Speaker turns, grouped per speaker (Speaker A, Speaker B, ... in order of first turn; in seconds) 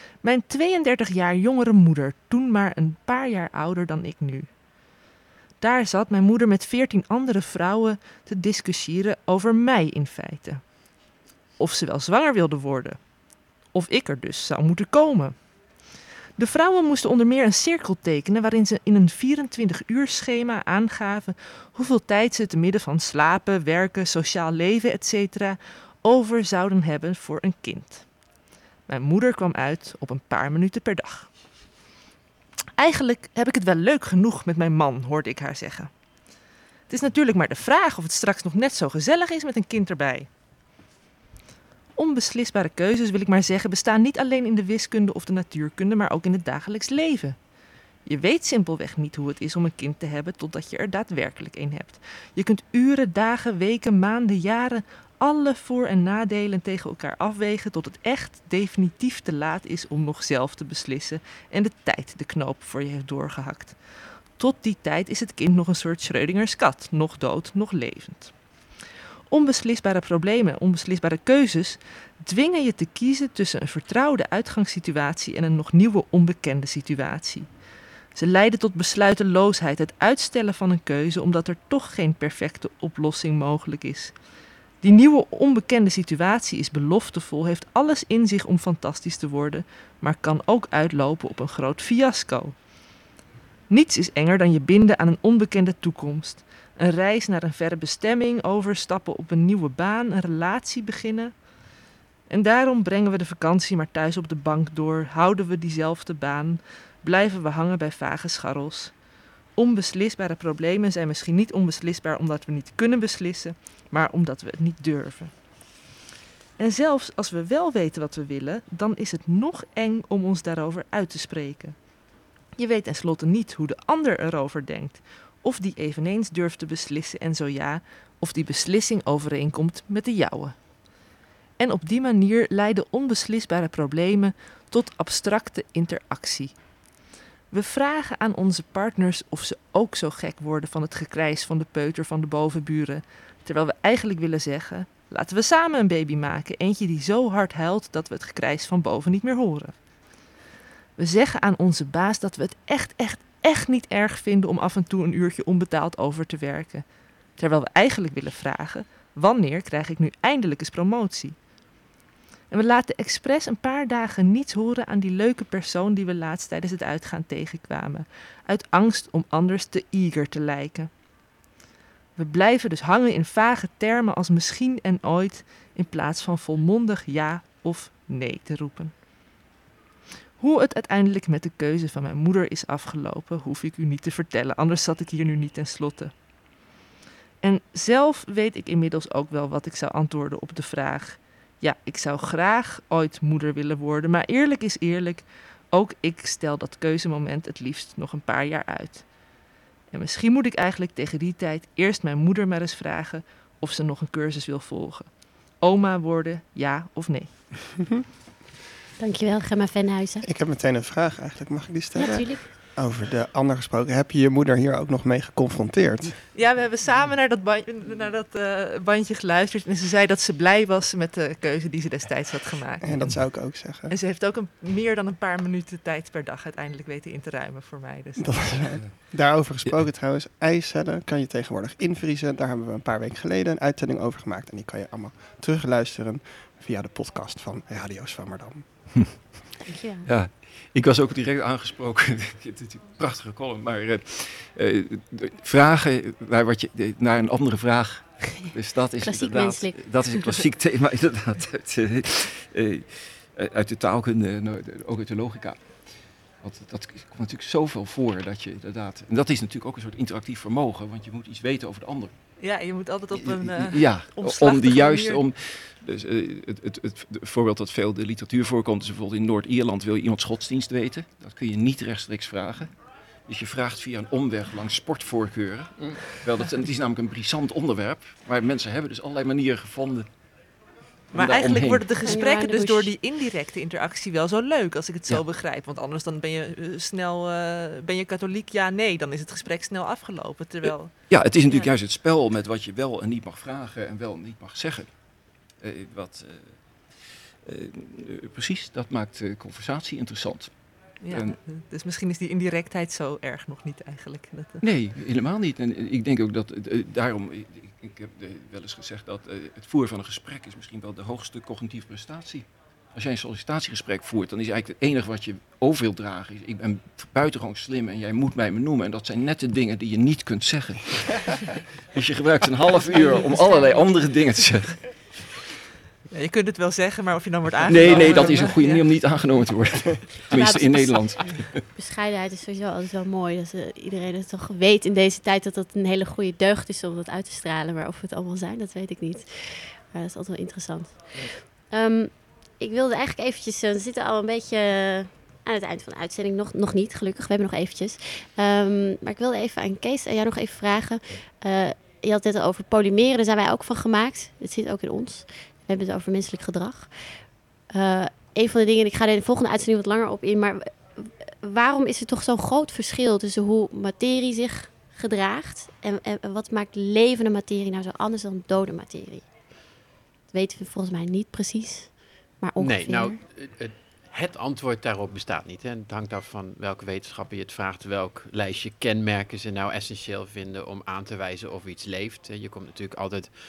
Speaker A: 0.2-4.5, 5.6-10.6, 11.6-13.0, 13.7-15.3, 16.4-28.1, 28.9-31.3, 32.8-35.9, 36.9-40.3, 42.0-47.4, 48.0-63.8, 64.3-68.3, 69.3-77.5, 78.1-84.1, 84.8-92.5, 93.7-101.3, 102.3-108.9, 109.6-115.3, 116.6-121.8, 122.6-130.6, 131.6-136.6, 137.5-149.8, 151.0-156.8, 157.3-161.3, 162.5-170.9, 172.2-178.9, 180.4-186.1, 187.4-199.1, 199.9-207.4, 216.3-228.8, 262.4-265.2, 281.1-291.7, 301.0-304.6, 326.1-328.8
Speaker B: 207.7-208.1, 210.2-216.2, 222.8-223.9, 228.2-239.2
Speaker C: 209.0-210.2, 211.9-212.4, 239.7-240.1, 249.0-250.4, 282.0-282.9, 323.3-323.8, 330.3-369.3, 370.3-373.2
Speaker D: 240.0-255.7, 256.4-262.1, 263.1-272.7, 273.3-280.1, 281.1-281.9, 290.6-294.9, 295.6-296.6, 297.4-300.5, 301.1-301.4, 304.6-325.0, 327.6-331.6
Speaker E: 372.6-383.3